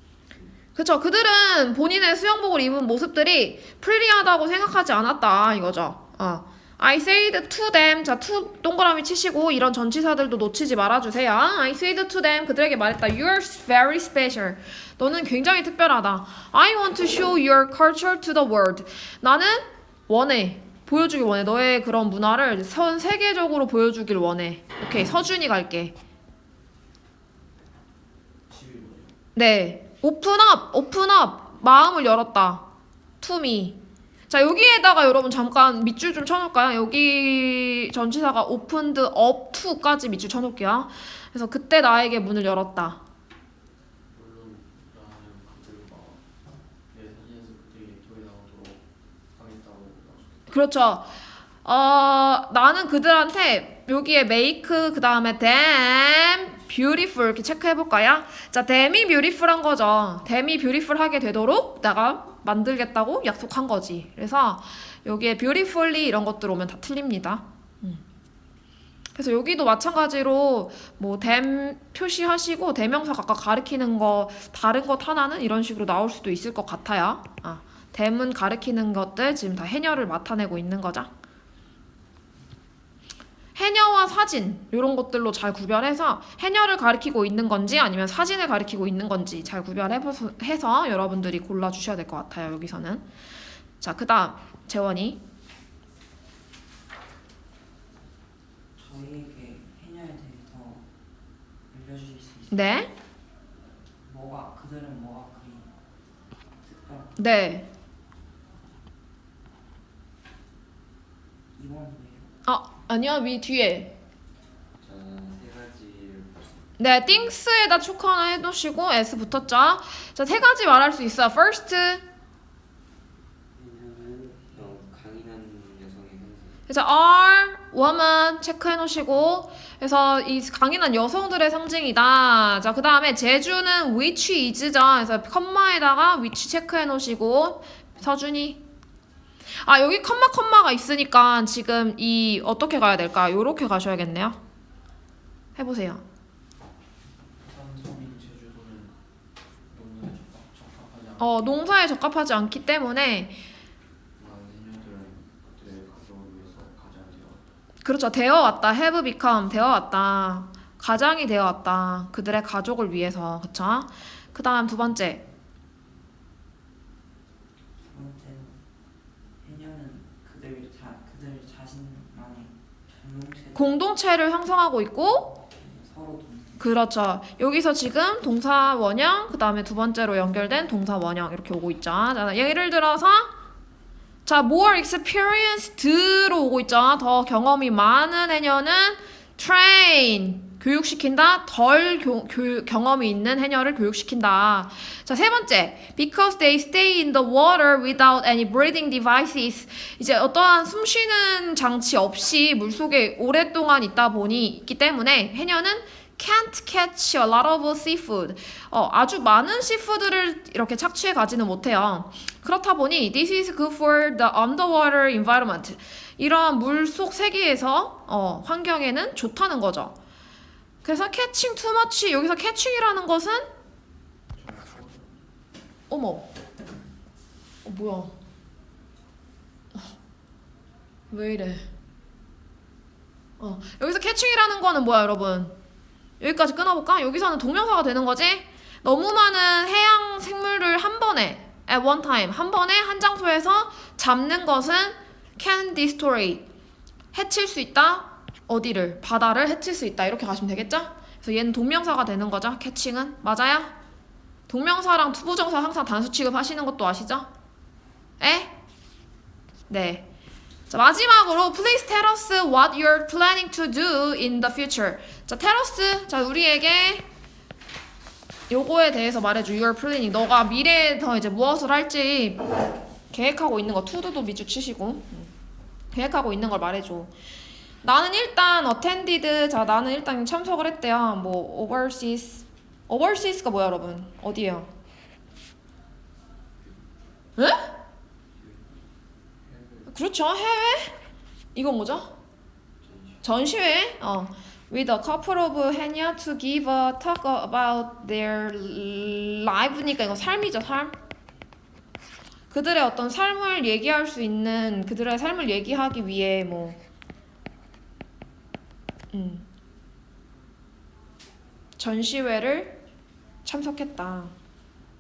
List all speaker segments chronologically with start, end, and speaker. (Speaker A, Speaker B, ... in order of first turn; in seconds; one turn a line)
Speaker A: 0.8-26.0
Speaker B: 28.5-29.1
Speaker A: 29.4-32.7
Speaker A: 33.2-43.0
Speaker B: 44.1-46.2
Speaker B: 46.9-48.8
Speaker B: 49.3-50.5
Speaker A: 50.5-68.0
Speaker A: 69.2-81.1
Speaker A: 83.5-93.0
Speaker A: 93.8-95.2
Speaker C: 98.8-100.9
Speaker C: 101.7-102.9
Speaker A: 102.5-102.9
Speaker C: 104.0-105.7
Speaker C: 106.6-107.2
Speaker A: 107.2-107.7
Speaker C: 111.5-112.3
Speaker A: 112.5-114.0
Speaker D: 114.8-117.3
Speaker A: 116.8-122.0
Speaker D: 123.5-126.6
Speaker A: 126.7-138.6
Speaker A: 139.6-144.4
Speaker A: 145.6-146.0
Speaker B: 147.4-149.0
Speaker B: 149.7-151.7
Speaker A: 151.2-153.4
Speaker B: 154.2-157.4
Speaker A: 157.8-165.2
Speaker C: 167.8-168.6
Speaker C: 169.4-173.8
Speaker A: 173.6-175.3
Speaker C: 175.4-176.7
Speaker A: 176.6-183.3
Speaker A: 184.2-220.0
Speaker A: 220.8-223.5
Speaker B: 224.3-225.2
Speaker A: 225.9-226.3
Speaker A: 227.7-228.1
Speaker A: 231.1-231.7
Speaker A: 233.4-235.6
Speaker A: 236.2-246.4
Speaker A: 247.1-253.8
Speaker A: 254.5-257.3
Speaker A: 258.2-258.6
Speaker A: 259.7-260.1
Speaker A: 260.7-267.1
Speaker A: 268.5-275.3
Speaker A: 275.9-277.1
Speaker A: 277.8-284.7
Speaker A: 287.4-287.7
Speaker D: 288.4-288.8
Speaker D: 289.4-289.9
Speaker A: 289.9-291.0
Speaker A: 291.6-292.1
Speaker D: 292.8-293.2
Speaker A: 293.2-301.0
Speaker A: 302.5-306.8
Speaker A: 309.1-309.5
Speaker A: 311.8-312.8
Speaker A: 313.4-314.3